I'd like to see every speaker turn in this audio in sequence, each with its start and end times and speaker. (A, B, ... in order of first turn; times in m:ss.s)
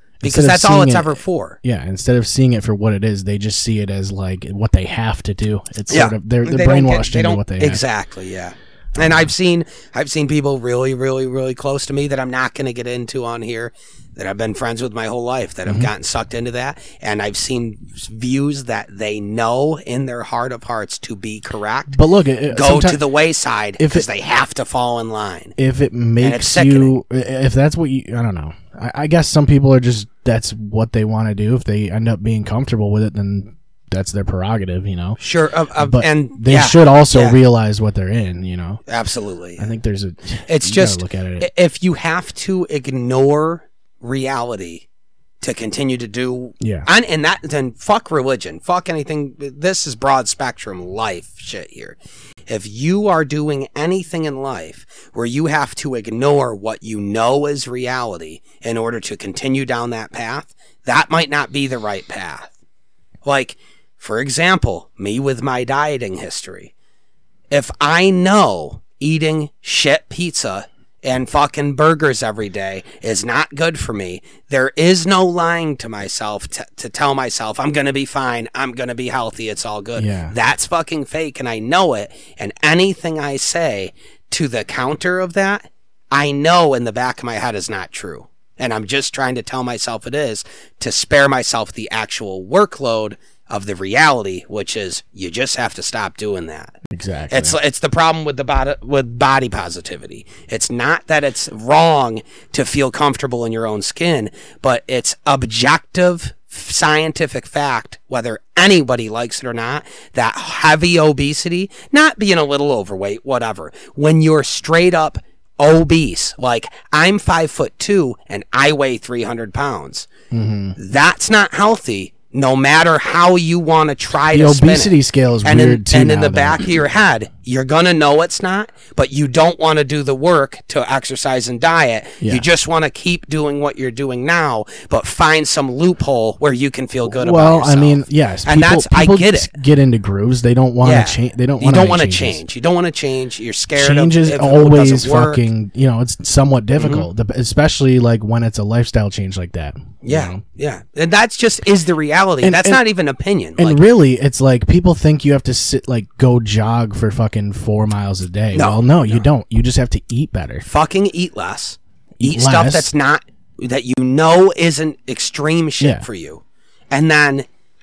0:00.2-0:01.6 A
0:00.2-0:07.8 B
0:05.9-0:25.6 A
0:09.0-0:09.3 B
0:21.9-0:23.0 B
0:23.8-0:24.1 B
0:25.6-0:35.2 B
0:26.2-0:27.0 A
0:35.2-0:37.4 A
0:35.8-0:38.8 B
0:38.9-0:39.7 A
0:39.6-0:41.5 B
0:40.5-0:44.8 A
0:45.4-1:02.5 A
0:46.6-0:46.9 B
1:03.2-1:06.7 A
1:07.5-1:36.7 A
1:20.0-1:20.3 B
1:36.9-1:37.6 B
1:37.3-2:00.1 A
2:00.3-2:00.8 B
2:00.8-2:19.5 A
2:04.3-2:06.8 B
2:12.2-2:12.4 B
2:17.1-2:22.4 B
2:20.8-2:25.4 A
2:23.7-2:30.4 B
2:26.8-2:27.1 A
2:30.0-2:33.8 A
2:32.4-2:32.8 B
2:33.6-2:40.6 B
2:38.5-2:39.2 A
2:40.6-2:47.5 A
2:42.2-2:42.9 B
2:45.8-2:46.0 B